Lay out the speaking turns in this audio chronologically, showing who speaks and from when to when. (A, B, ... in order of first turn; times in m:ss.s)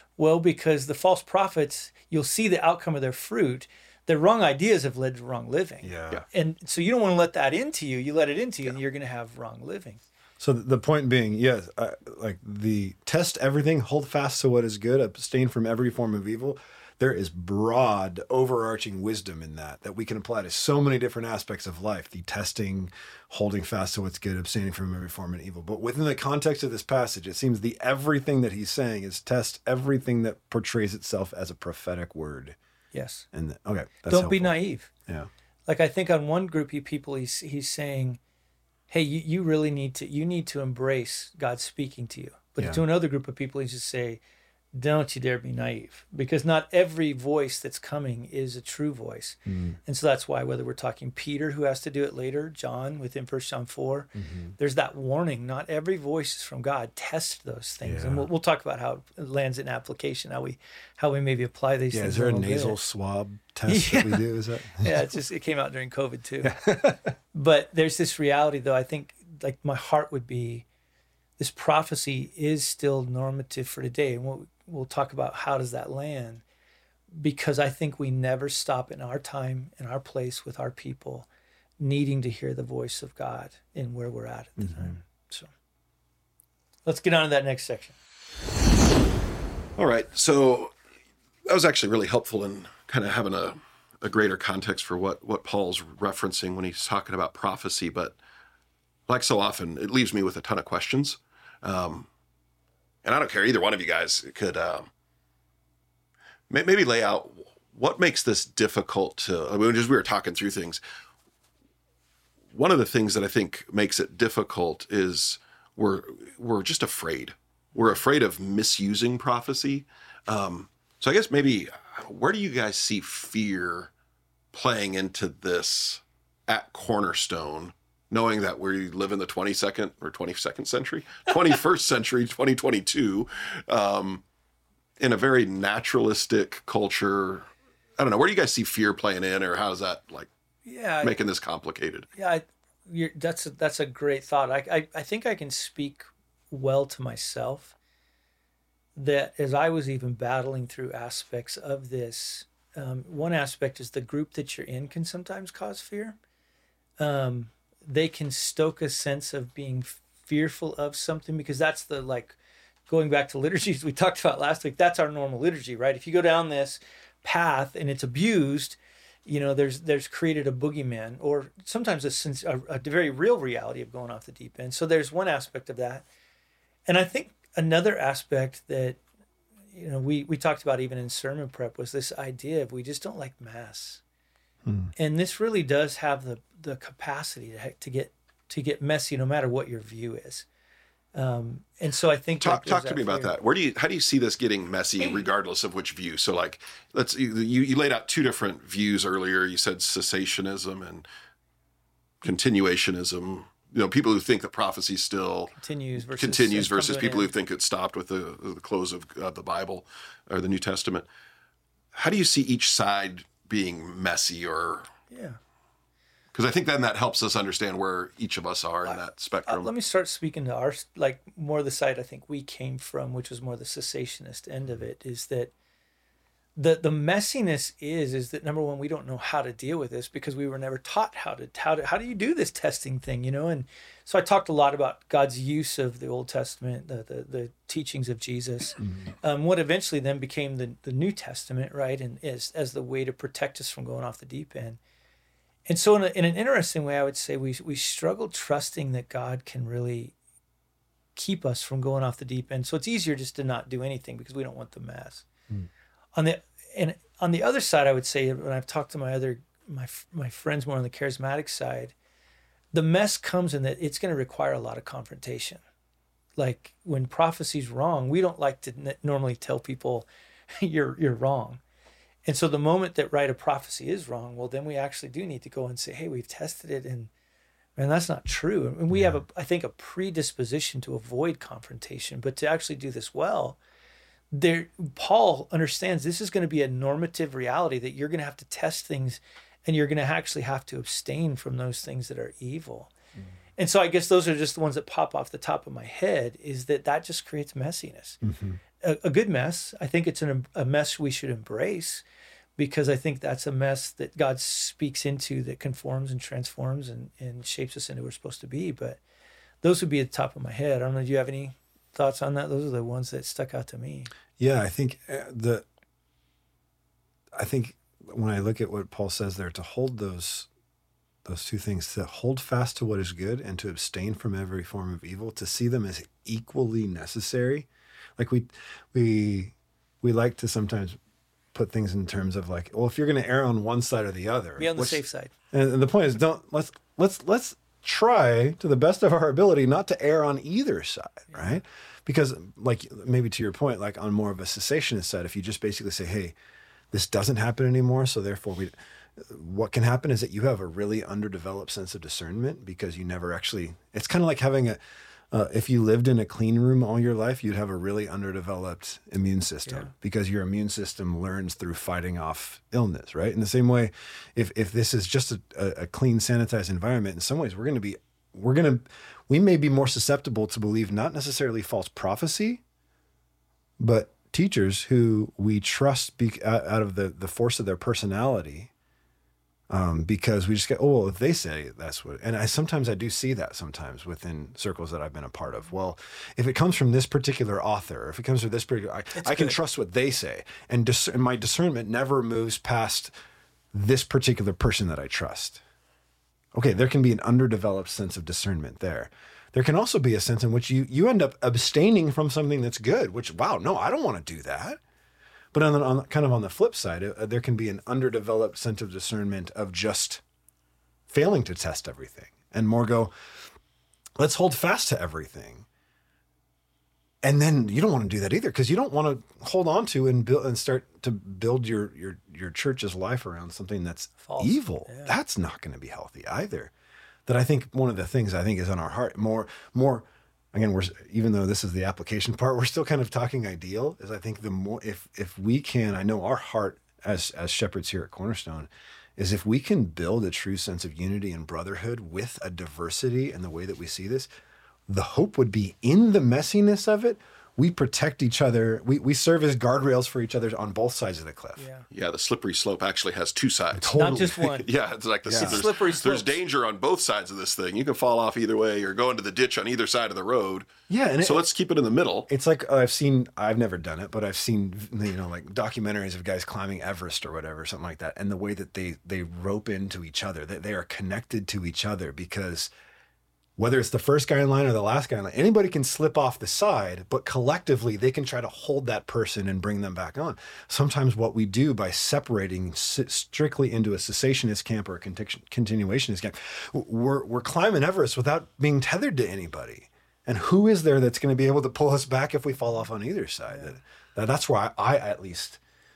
0:00.2-0:10.0 A
0:05.8-0:06.2 B
0:10.4-0:32.6 B
0:32.9-0:33.3 A
0:33.3-0:35.3 B
0:34.1-0:34.9 A
0:35.7-0:38.2 A
0:38.9-0:44.2 A
0:44.8-1:02.8 A
0:49.5-0:49.8 B
0:54.2-0:54.6 B
0:57.8-0:58.3 B
1:01.9-1:05.1 B
1:03.7-1:04.3 A
1:04.8-1:06.6 A
1:06.4-1:07.2 B
1:07.3-1:10.7 A
1:11.4-1:16.4 A
1:17.1-1:21.3 A
1:21.8-1:25.5 A
1:24.6-1:25.0 B
1:26.9-1:28.0 A
1:29.8-1:30.7 C
1:31.5-1:38.2 C
1:39.1-1:42.1 C
1:43.0-1:44.9 C
1:46.5-1:50.8 C
1:52.5-2:03.9 C
2:04.5-2:14.2 C
2:15.0-2:20.3 C
2:20.7-2:21.2 A
2:21.0-2:22.1 C
2:22.2-2:27.8 A
2:29.0-2:36.2 A
2:37.0-2:42.4 A
2:42.9-2:56.1 A
2:56.9-2:59.0 A
2:59.7-3:04.0 A
3:04.6-3:04.9 B
3:05.0-3:10.5 A
3:11.2-3:13.3 A
3:12.4-3:21.1 C
3:22.2-3:31.1 C
3:25.5-3:27.3 A
3:31.9-3:34.9 C
3:35.1-3:35.4 A
3:36.3-3:39.7 C
3:38.8-3:45.5 A
3:46.6-4:04.8 A
4:05.7-4:10.2 A
4:11.2-4:15.3 A
4:16.2-4:22.0 A
4:22.7-4:25.6 A
4:26.4-4:30.1 A
4:30.6-4:31.6 A
4:32.2-4:37.1 A
4:37.8-4:43.6 A
4:38.9-4:39.2 B
4:44.3-4:52.9 A
4:53.6-4:58.2 A
4:58.2-4:58.6 B
4:58.8-5:02.0 A
5:02.6-5:09.0 A
5:09.6-5:14.1 A
5:14.4-5:15.6 B
5:17.4-5:20.5 B
5:21.2-5:31.0 B
5:31.5-5:46.4 B
5:34.6-5:35.3 A
5:41.3-5:41.6 A
5:46.9-5:54.8 B
5:55.3-6:12.6 B
5:59.7-5:59.9 A
6:13.8-6:18.7 B
6:19.7-6:33.1 B
6:29.2-6:29.6 A
6:33.7-6:35.6 B
6:36.6-6:44.8 B
6:45.5-6:50.2 B
6:51.1-6:53.1 B
6:54.2-6:55.7 B
6:57.2-7:06.7 B
7:04.2-7:05.2 A
7:07.3-7:24.3 B
7:24.9-7:31.7 B
7:31.6-7:31.9 A
7:31.9-7:40.7 C
7:33.8-7:34.6 B
7:34.0-7:34.7 A
7:35.3-7:35.7 B
7:35.4-7:36.4 A
7:40.9-7:41.5 B
7:41.2-7:42.3 C
7:42.3-7:52.7 B
7:53.6-8:15.6 B